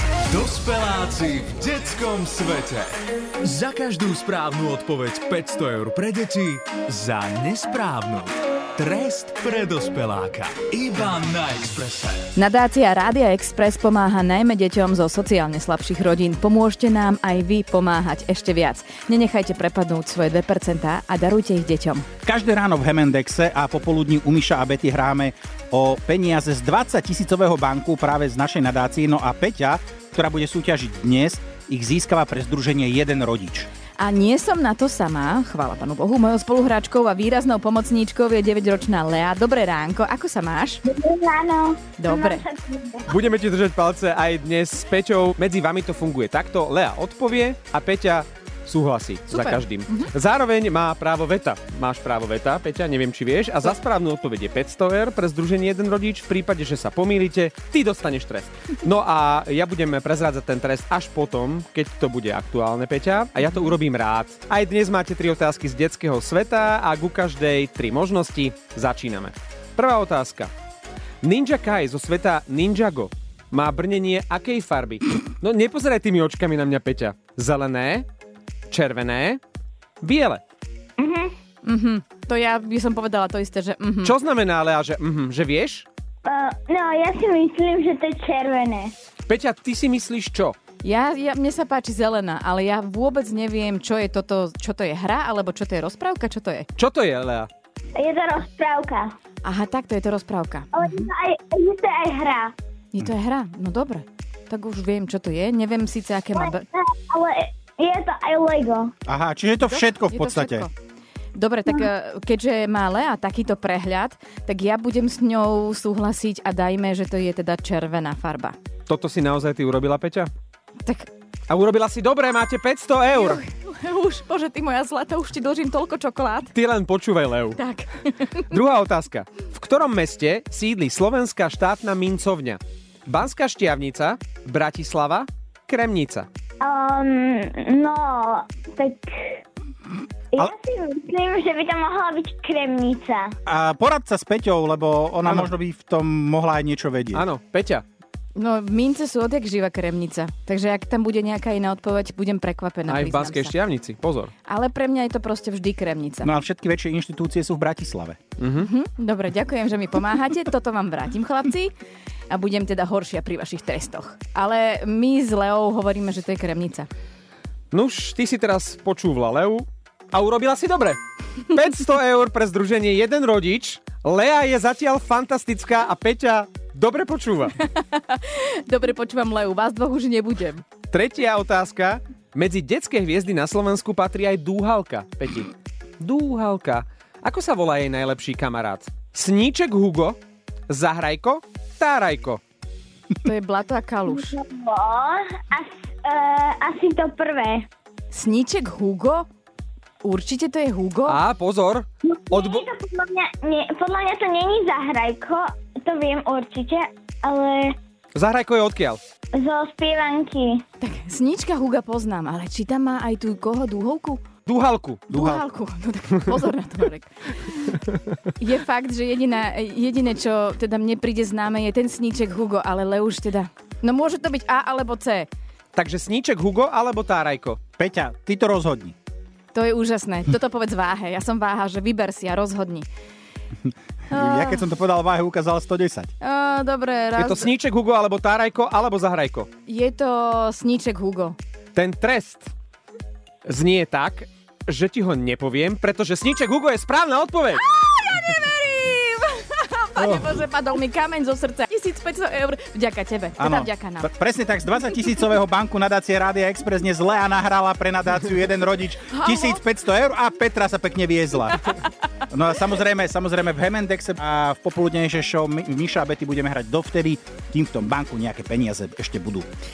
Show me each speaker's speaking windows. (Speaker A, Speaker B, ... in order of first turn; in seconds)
Speaker A: 0.3-12.3
Speaker B: 12.4-22.1, 34.0-40.8, 42.0-42.4, 49.3-50.1, 81.6-84.2, 90.8-96.7, 99.4-100.9, 102.9-106.7, 109.7-110.7, 111.3-118.6, 120.8-121.1, 123.1-126.5, 127.5-128.6, 148.3-153.5, 154.4-156.3, 158.6-161.7, 162.3-166.9, 177.6-180.6, 193.2-194.4, 198.1-199.2, 200.0-201.2, 210.8-214.2, 215.1-217.8, 218.4-225.3, 229.5-232.9, 234.1-234.6, 236.2-237.5, 239.7-241.4, 247.6-254.1, 259.1-259.6
Speaker C: 22.2-33.7, 109.1-110.7, 143.4-147.2, 156.2-158.2, 227.8-228.9, 234.1-236.1, 250.0-250.3, 253.4-261.6, 262.3-269.5
Speaker D: 40.9-43.1, 81.0-81.3, 86.2-88.9, 98.0-99.1, 100.7-102.5, 106.3-108.9, 136.6-139.4, 140.3-143.3, 194.1-197.7, 202.0-207.8, 209.3-210.6
Speaker E: 43.1-70.5, 71.2-78.1, 78.7-79.4, 80.0-80.4, 84.0-85.8, 89.3-90.6, 96.8-97.5, 118.9-120.3, 121.5-123.4, 126.5-127.6, 128.5-136.3, 145.2-145.5, 147.1-147.8, 152.9-154.3, 158.4-158.7, 167.7-177.5, 180.9-190.2, 190.7-192.4, 201.1-202.7, 208.1-209.0, 214.4-215.4, 225.7-227.6, 237.2-239.5, 241.8-242.5, 243.4-247.7